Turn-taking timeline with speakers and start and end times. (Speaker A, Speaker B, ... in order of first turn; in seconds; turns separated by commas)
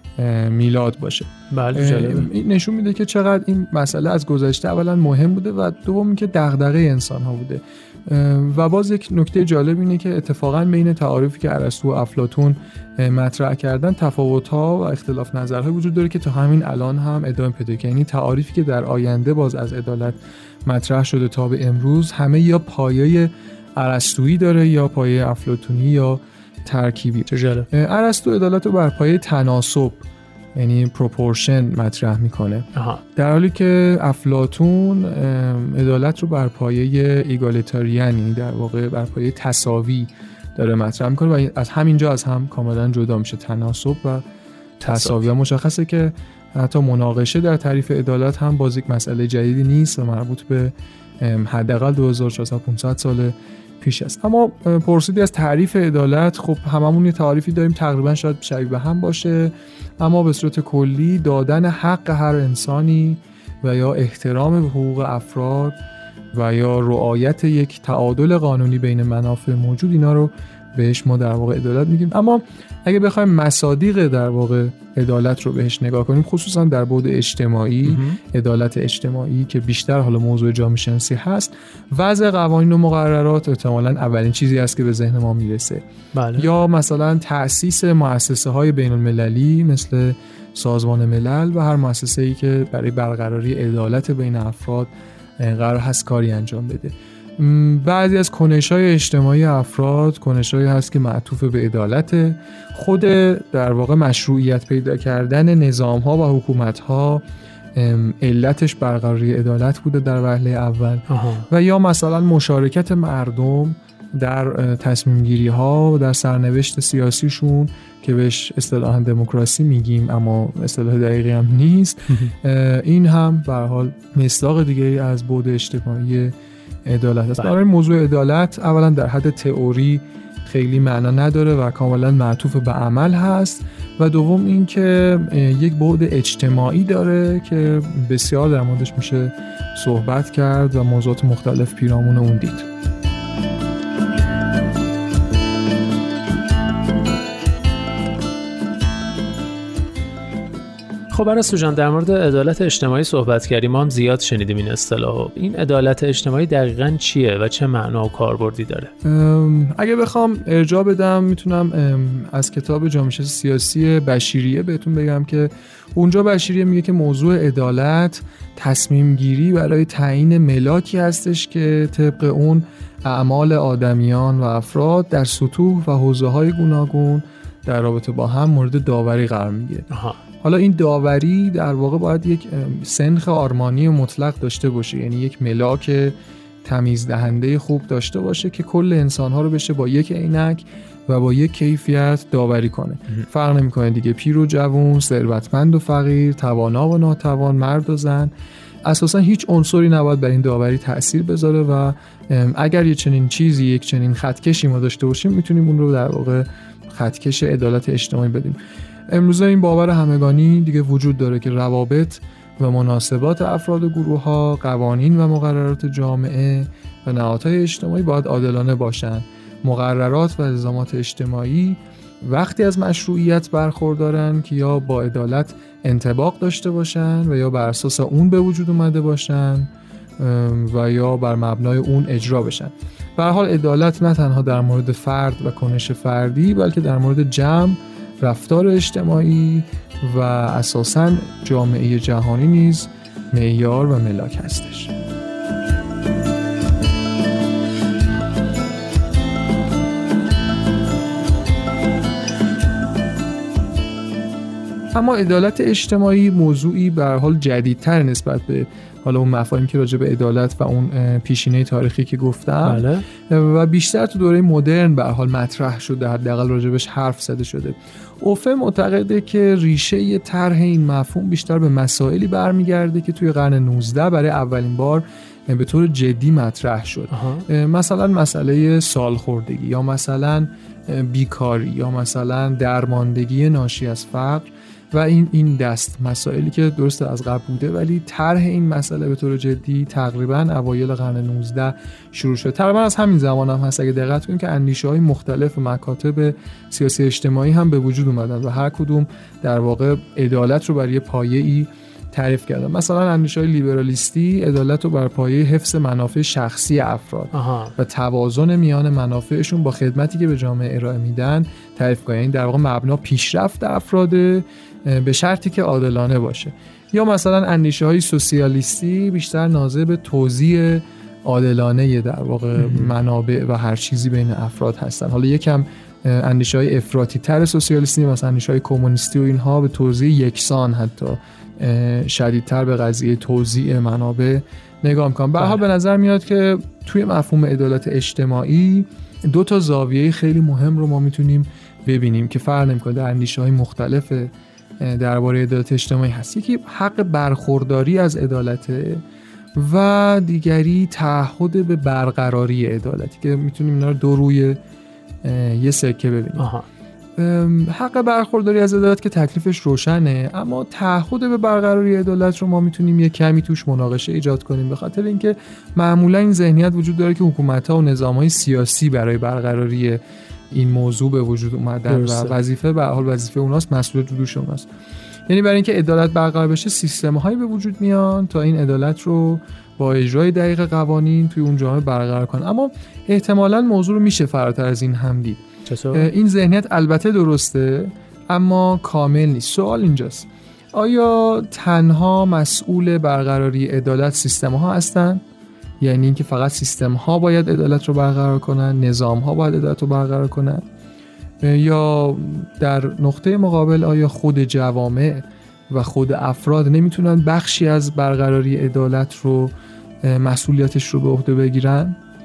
Speaker A: 0.2-44.2, Speaker B: 1.5-2.3, Speaker B: 27.3-27.7, Speaker B: 32.7-33.0, Speaker B: 44.8-45.2, Speaker A: 44.8-65.8, Speaker A: 66.3-107.2, Speaker B: 77.8-78.2, Speaker B: 86.1-86.5, Speaker A: 107.7-142.7, Speaker B: 111.1-111.5, Speaker B: 151.1-158.9, Speaker A: 159.0-179.9, Speaker B: 179.9-180.2, Speaker A: 180.4-198.3, Speaker A: 198.8-208.6, Speaker A: 209.1-244.9, Speaker A: 254.9-349.0, Speaker B: 262.6-263.0, Speaker B: 277.1-277.4, Speaker B: 307.3-307.7, Speaker B: 322.6-322.9, Speaker A: 349.6-354.6, Speaker A: 355.2-356.5, Speaker B: 356.4-356.6, Speaker A: 357.2-374.6, Speaker B: 371.9-372.4, Speaker A: 375.3-395.2, Speaker B: 385.7-386.1, Speaker A: 395.8-400.6, Speaker A: 401.4-409.5, Speaker A: 410.0-412.0